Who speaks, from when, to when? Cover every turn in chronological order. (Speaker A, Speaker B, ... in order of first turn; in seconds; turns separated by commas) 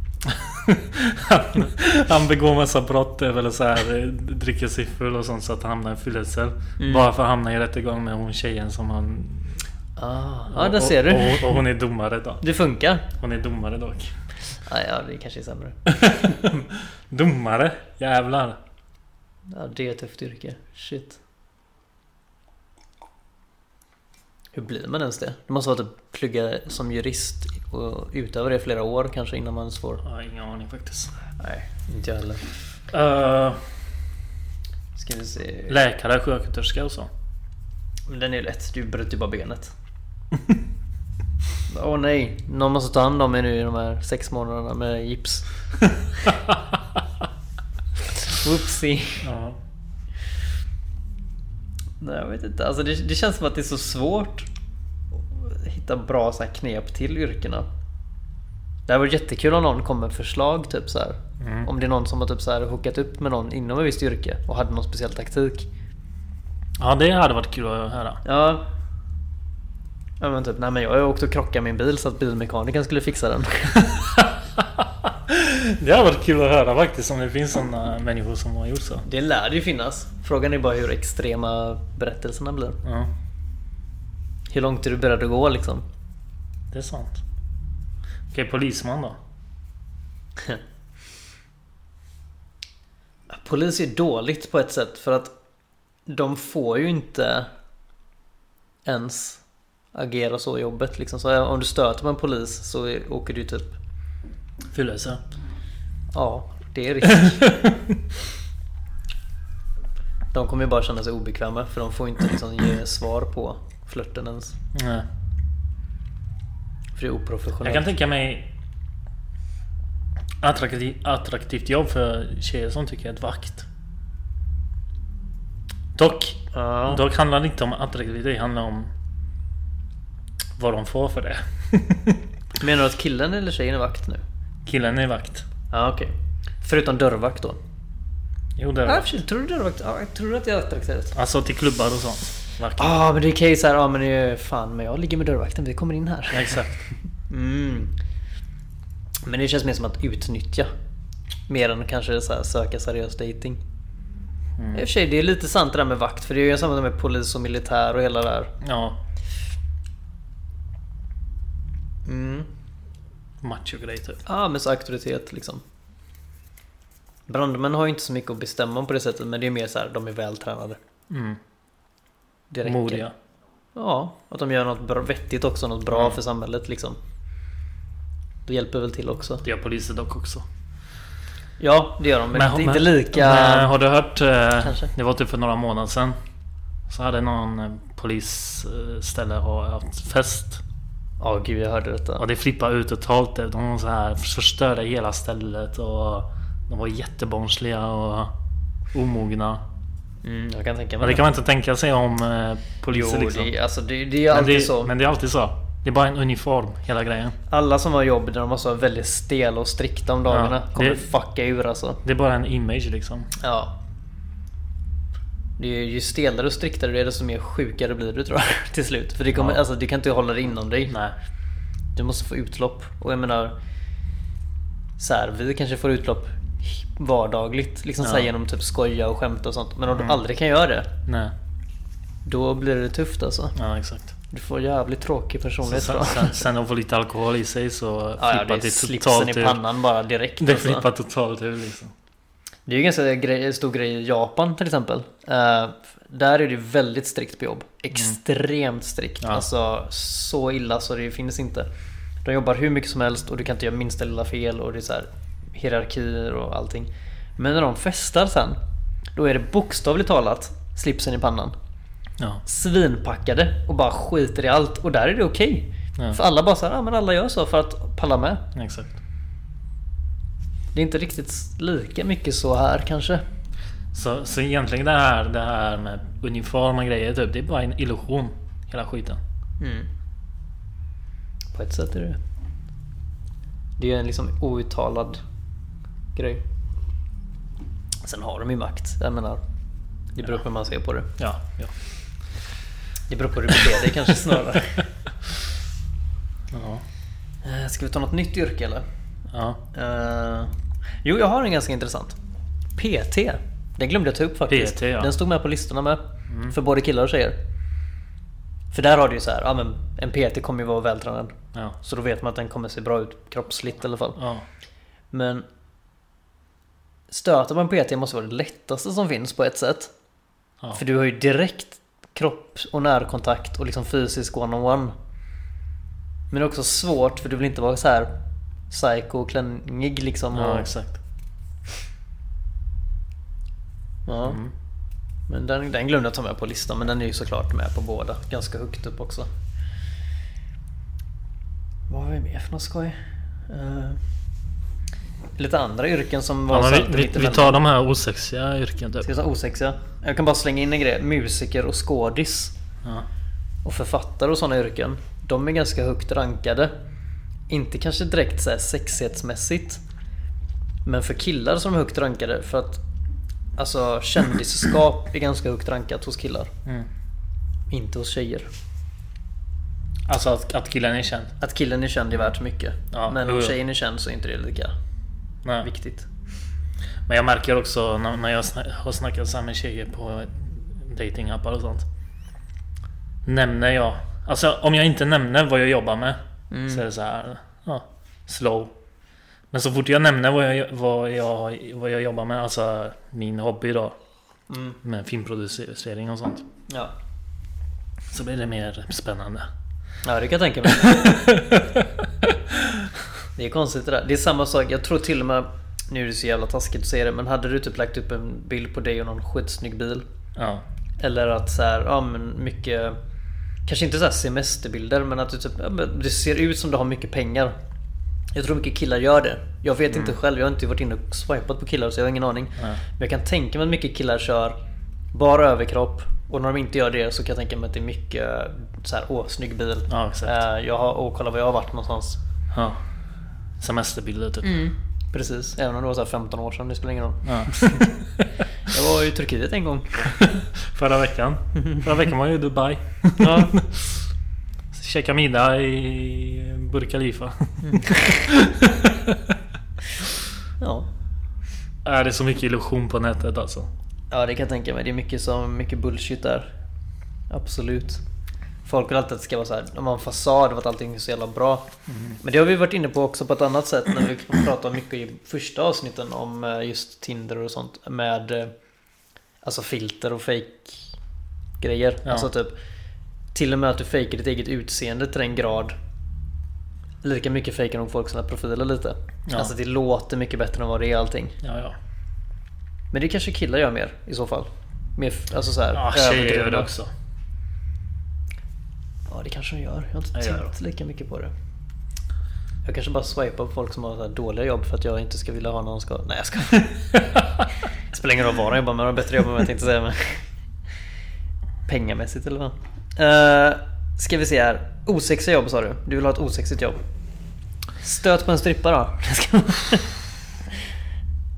Speaker A: 0.2-9.6, Speaker B: 6.8-7.1, Speaker B: 10.0-11.6, Speaker A: 10.5-12.4, Speaker B: 12.4-13.1, Speaker A: 13.1-14.1, Speaker B: 14.7-16.5, Speaker A: 15.9-18.6, Speaker B: 19.5-21.2, Speaker B: 24.5-30.0, Speaker A: 30.0-31.1, Speaker B: 31.4-32.4, Speaker A: 32.9-33.6, Speaker B: 35.0-35.8, Speaker A: 35.7-37.1, Speaker B: 38.1-39.7, Speaker B: 41.7-45.5, Speaker B: 48.1-49.3, Speaker A: 49.2-49.6, Speaker B: 52.0-54.5, Speaker B: 55.2-57.7, Speaker B: 58.9-65.7, Speaker A: 61.4-61.7, Speaker A: 66.8-68.2, Speaker B: 68.2-68.6, Speaker B: 70.2-73.9, Speaker A: 73.9-79.0, Speaker B: 79.0-82.8, Speaker A: 82.8-83.1, Speaker B: 84.5-85.8, Speaker A: 86.7-87.2, Speaker A: 88.3-89.2, Speaker B: 93.3-95.3, Speaker B: 96.1-97.5, Speaker B: 98.8-99.4, Speaker B: 99.9-103.8, Speaker A: 104.7-105.2, Speaker B: 106.1-107.5, Speaker A: 107.1-108.0, Speaker B: 110.3-114.6, Speaker A: 114.7-115.1, Speaker B: 117.0-117.9, Speaker A: 117.6-118.5, Speaker A: 120.4-123.7, Speaker A: 126.0-128.9, Speaker B: 126.5-127.0, Speaker A: 130.6-132.2, Speaker B: 132.6-134.2, Speaker A: 134.7-135.4, Speaker B: 135.7-137.6, Speaker A: 138.6-139.1, Speaker B: 138.9-141.1, Speaker A: 141.1-143.0, Speaker B: 142.8-146.6, Speaker A: 146.3-146.8, Speaker B: 147.3-147.9, Speaker B: 149.2-150.7, Speaker B: 151.5-153.6, Speaker A: 154.6-154.9, Speaker B: 154.7-158.5, Speaker A: 158.6-159.0, Speaker B: 162.1-162.5, Speaker A: 163.4-164.2, Speaker B: 164.2-165.6, Speaker B: 167.3-170.8, Speaker A: 171.1-171.4, Speaker B: 172.5-173.1, Speaker A: 172.6-173.1, Speaker B: 173.8-177.0, Speaker A: 175.9-176.2, Speaker B: 178.4-179.4, Speaker A: 179.4-180.4, Speaker B: 181.6-183.7, Speaker A: 182.3-186.2, Speaker B: 184.6-184.9, Speaker A: 186.9-190.6, Speaker B: 191.2-192.2, Speaker A: 192.2-198.3, Speaker A: 198.9-199.6, Speaker B: 200.2-201.2, Speaker A: 201.0-203.5, Speaker B: 202.9-204.9, Speaker A: 204.3-207.4, Speaker B: 207.5-212.0, Speaker A: 210.3-211.1, Speaker A: 212.0-213.3, Speaker B: 213.4-213.7, Speaker B: 215.6-220.9, Speaker A: 219.3-219.6, Speaker A: 220.9-221.1, Speaker B: 221.9-223.6, Speaker B: 225.0-230.9, Speaker A: 228.0-228.3, Speaker A: 229.9-230.2, Speaker A: 231.1-231.3, Speaker B: 232.2-233.6, Speaker A: 233.6-234.1, Speaker B: 234.3-236.5, Speaker A: 235.6-239.6, Speaker B: 238.2-240.9, Speaker A: 240.4-241.9, Speaker B: 242.7-251.7, Speaker B: 252.2-258.6, Speaker B: 259.1-261.6, Speaker B: 262.4-268.4, Speaker A: 268.6-269.0, Speaker B: 270.7-273.2, Speaker A: 273.9-279.2, Speaker B: 279.6-279.9, Speaker B: 281.5-282.2, Speaker B: 283.8-285.2, Speaker B: 286.1-286.4, Speaker B: 288.0-289.4, Speaker B: 290.1-291.1, Speaker A: 291.2-291.7, Speaker B: 293.1-294.9, Speaker A: 296.5-296.8, Speaker B: 297.4-298.8, Speaker A: 299.3-299.6, Speaker B: 299.7-300.5, Speaker B: 301.0-302.2, Speaker B: 302.8-307.4, Speaker A: 304.5-305.1, Speaker A: 306.3-306.6, Speaker B: 308.7-314.2, Speaker A: 314.2-314.4, Speaker B: 315.1-315.4, Speaker B: 317.1-319.9, Speaker B: 320.7-324.9, Speaker B: 326.3-328.1, Speaker B: 328.7-330.7, Speaker A: 330.3-331.0, Speaker B: 334.1-334.4, Speaker A: 334.2-334.5, Speaker B: 335.3-339.3, Speaker B: 341.9-343.0, Speaker B: 343.5-344.0, Speaker B: 345.4-347.6, Speaker A: 346.5-349.1, Speaker B: 349.0-352.6, Speaker B: 353.6-356.7, Speaker B: 357.5-359.8, Speaker B: 360.8-362.8, Speaker B: 363.6-366.5, Speaker B: 367.7-368.5, Speaker A: 370.1-371.3, Speaker B: 371.4-374.7, Speaker A: 372.9-373.6, Speaker B: 375.6-376.1, Speaker A: 377.1-381.9, Speaker A: 383.2-388.8, Speaker B: 386.5-386.8, Speaker A: 389.5-393.9, Speaker B: 394.5-394.8, Speaker A: 394.8-396.5, Speaker B: 396.7-396.9, Speaker A: 398.1-399.5, Speaker B: 400.0-401.2, Speaker A: 400.7-402.9, Speaker B: 403.4-410.1, Speaker A: 410.4-410.6, Speaker B: 411.0-413.0, Speaker B: 413.7-417.6, Speaker B: 418.3-424.6, Speaker A: 419.9-420.2, Speaker B: 425.1-432.2, Speaker A: 429.9-430.4, Speaker A: 432.5-432.8, Speaker A: 433.6-434.6, Speaker B: 434.4-437.9, Speaker A: 437.2-438.3, Speaker B: 438.7-440.2, Speaker A: 440.2-444.1, Speaker B: 443.2-443.6, Speaker A: 444.7-449.4, Speaker B: 447.7-448.2, Speaker B: 450.6-450.9, Speaker A: 451.8-453.7, Speaker B: 454.1-456.5, Speaker B: 457.3-458.0, Speaker B: 458.6-461.7, Speaker A: 461.9-462.2, Speaker B: 462.2-468.5, Speaker B: 469.4-470.9, Speaker B: 471.6-472.6, Speaker B: 473.3-475.7, Speaker B: 477.0-481.4, Speaker A: 479.3-479.5, Speaker A: 481.4-481.8, Speaker B: 482.9-486.7, Speaker A: 485.7-486.9, Speaker B: 489.1-491.3, Speaker A: 490.1-490.5, Speaker B: 492.6-497.0, Speaker B: 497.9-500.2, Speaker B: 501.7-506.8, Speaker B: 507.8-509.9